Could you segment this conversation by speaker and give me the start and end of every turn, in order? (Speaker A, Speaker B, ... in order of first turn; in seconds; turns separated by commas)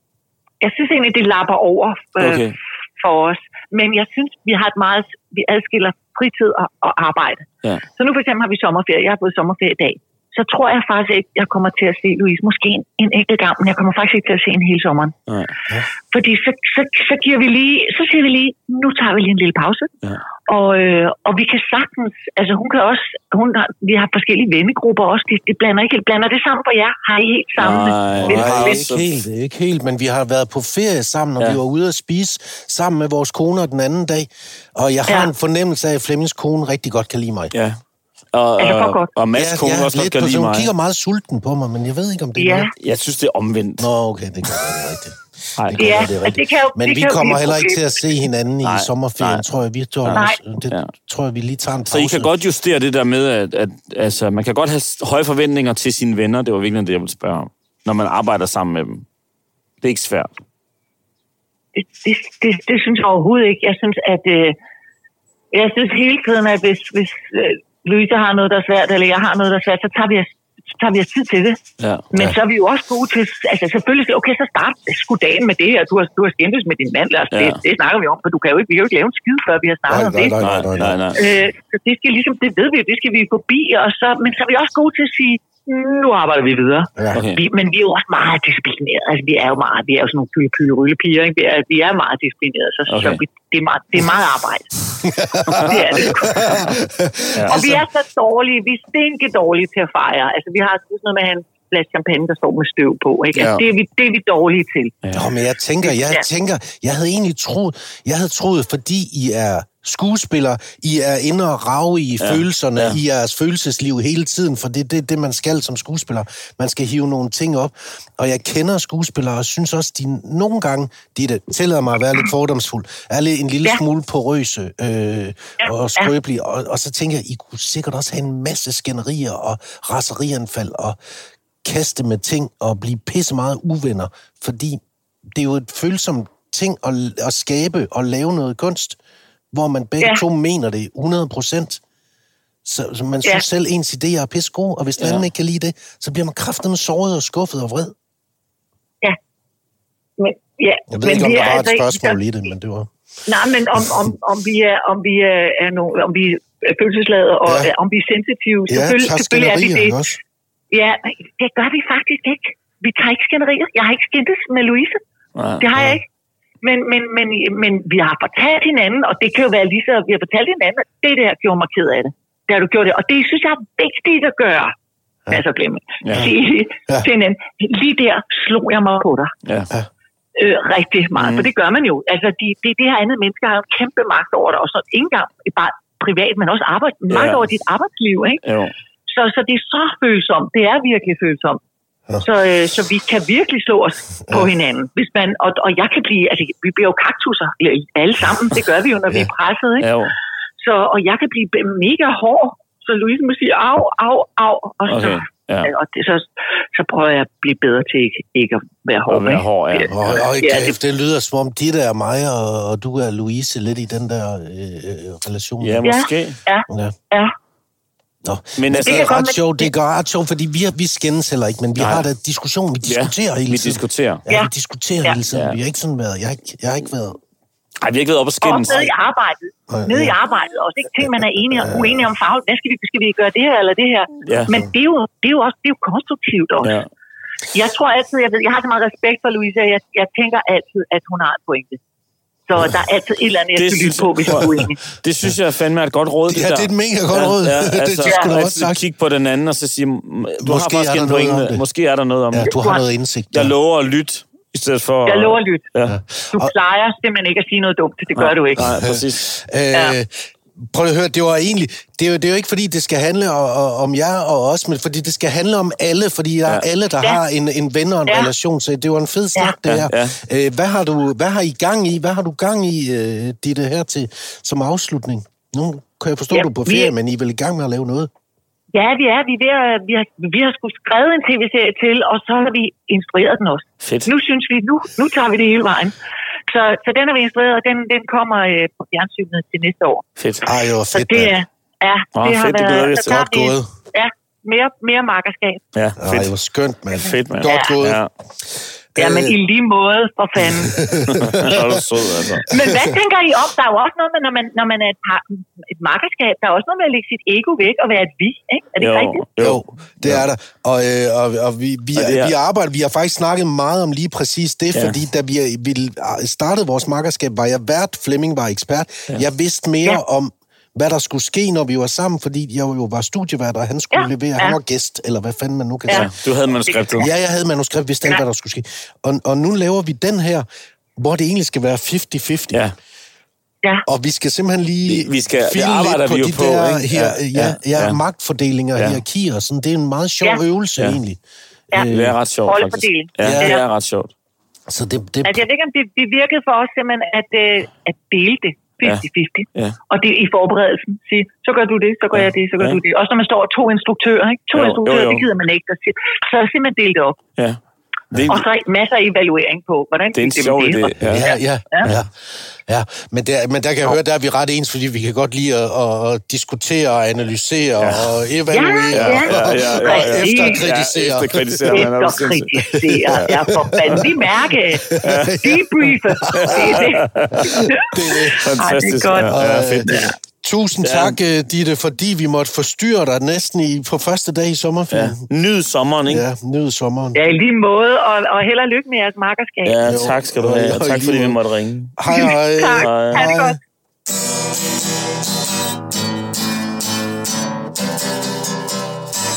Speaker A: 0.6-15.2, Speaker B: 2.2-2.5, Speaker B: 15.3-15.5, Speaker A: 16.1-19.9, Speaker A: 20.5-28.9, Speaker B: 27.6-29.1, Speaker C: 28.2-37.5, Speaker B: 37.5-37.8, Speaker B: 38.3-40.7, Speaker A: 38.6-39.1, Speaker C: 39.3-42.7, Speaker A: 42.4-42.7, Speaker B: 42.8-43.9, Speaker C: 43.8-52.3, Speaker B: 45.6-46.0, Speaker A: 45.8-48.1, Speaker B: 48.6-49.4, Speaker B: 50.0-50.9, Speaker A: 50.1-50.4, Speaker B: 51.9-59.0, Speaker B: 59.8-60.4, Speaker A: 61.8-64.6, Speaker A: 65.5-71.6, Speaker B: 71.8-72.1, Speaker A: 72.1-80.3, Speaker B: 77.3-77.6, Speaker C: 79.9-81.0, Speaker B: 80.4-81.2, Speaker A: 81.2-94.8, Speaker B: 87.1-87.4, Speaker B: 92.9-93.2, Speaker C: 95.0-97.8, Speaker A: 95.5-96.8, Speaker B: 97.3-97.6, Speaker A: 97.5-105.0, Speaker B: 103.3-103.6, Speaker C: 105.1-131.0, Speaker A: 105.8-106.2, Speaker B: 112.2-113.0, Speaker C: 131.6-134.8, Speaker C: 135.3-139.0, Speaker C: 139.5-141.8, Speaker C: 142.6-147.9, Speaker B: 145.0-145.2, Speaker A: 150.2-152.2, Speaker C: 150.9-152.9, Speaker A: 153.3-159.9, Speaker C: 153.8-154.1, Speaker C: 157.4-157.7, Speaker C: 158.7-160.2, Speaker A: 160.7-165.0, Speaker B: 165.3-165.6, Speaker A: 165.6-166.0, Speaker A: 166.6-174.7, Speaker A: 175.3-179.3, Speaker B: 176.0-176.3, Speaker B: 179.4-179.7, Speaker A: 180.3-188.4, Speaker B: 181.2-181.5, Speaker B: 187.1-187.4, Speaker B: 188.4-188.7, Speaker A: 189.1-191.6, Speaker A: 192.2-199.9, Speaker B: 199.8-200.1, Speaker A: 200.6-210.8, Speaker B: 204.9-205.7, Speaker B: 209.1-210.3, Speaker C: 209.9-215.9, Speaker B: 215.6-216.4, Speaker A: 215.8-217.3, Speaker C: 216.7-216.9, Speaker C: 218.2-227.2, Speaker B: 218.6-219.1, Speaker A: 218.8-219.7, Speaker B: 221.8-222.1, Speaker B: 222.8-224.2, Speaker B: 225.3-225.6, Speaker B: 227.8-228.9, Speaker A: 228.4-236.8, Speaker C: 229.7-230.1, Speaker C: 231.5-232.1, Speaker B: 234.2-234.6, Speaker B: 236.6-236.9, Speaker A: 237.5-241.8, Speaker A: 242.5-244.8, Speaker B: 243.6-252.5, Speaker C: 246.3-248.8, Speaker C: 250.4-251.6, Speaker C: 252.3-253.5, Speaker A: 252.4-252.8, Speaker B: 253.3-256.0, Speaker A: 255.1-255.7, Speaker C: 255.8-256.5, Speaker A: 256.3-258.7, Speaker B: 258.1-259.3, Speaker C: 258.6-278.1, Speaker B: 269.6-270.2, Speaker A: 276.3-276.9, Speaker A: 278.7-285.9, Speaker B: 283.8-284.1, Speaker A: 286.5-290.1, Speaker B: 290.2-290.5, Speaker C: 290.4-291.4, Speaker A: 290.9-295.6, Speaker B: 292.1-293.2, Speaker C: 293.1-293.6, Speaker B: 295.7-296.3, Speaker C: 296.0-298.0, Speaker B: 296.9-298.1, Speaker A: 297.4-297.8, Speaker C: 298.9-299.4, Speaker A: 299.0-301.0, Speaker C: 300.4-303.0, Speaker B: 301.1-302.5, Speaker A: 302.5-309.2, Speaker B: 308.8-310.2, Speaker C: 309.4-330.4, Speaker B: 311.9-312.3, Speaker A: 323.9-324.6, Speaker B: 325.9-327.1, Speaker A: 326.7-327.1, Speaker C: 331.0-332.6, Speaker C: 333.9-341.2, Speaker B: 334.9-338.0, Speaker B: 338.8-339.0, Speaker C: 341.7-342.1, Speaker B: 341.9-344.1, Speaker A: 342.5-343.6, Speaker C: 343.2-343.5, Speaker C: 344.7-345.4, Speaker A: 345.2-357.2, Speaker B: 348.8-349.8, Speaker B: 352.1-352.8, Speaker B: 354.5-355.2, Speaker B: 358.1-358.4, Speaker A: 358.3-361.9, Speaker B: 360.1-361.2, Speaker C: 361.0-371.9, Speaker B: 367.8-368.2, Speaker A: 368.5-370.6, Speaker B: 368.9-372.5, Speaker A: 371.7-379.4, Speaker C: 372.7-378.4, Speaker B: 373.1-374.0, Speaker B: 375.0-375.4, Speaker B: 376.3-377.7, Speaker B: 378.3-380.1, Speaker C: 379.3-385.2, Speaker B: 380.8-381.2, Speaker B: 384.9-386.2, Speaker C: 386.1-387.2, Speaker A: 387.1-389.8, Speaker B: 389.6-392.0, Speaker C: 389.8-391.4, Speaker C: 392.0-393.6, Speaker A: 392.1-393.6, Speaker B: 392.8-393.2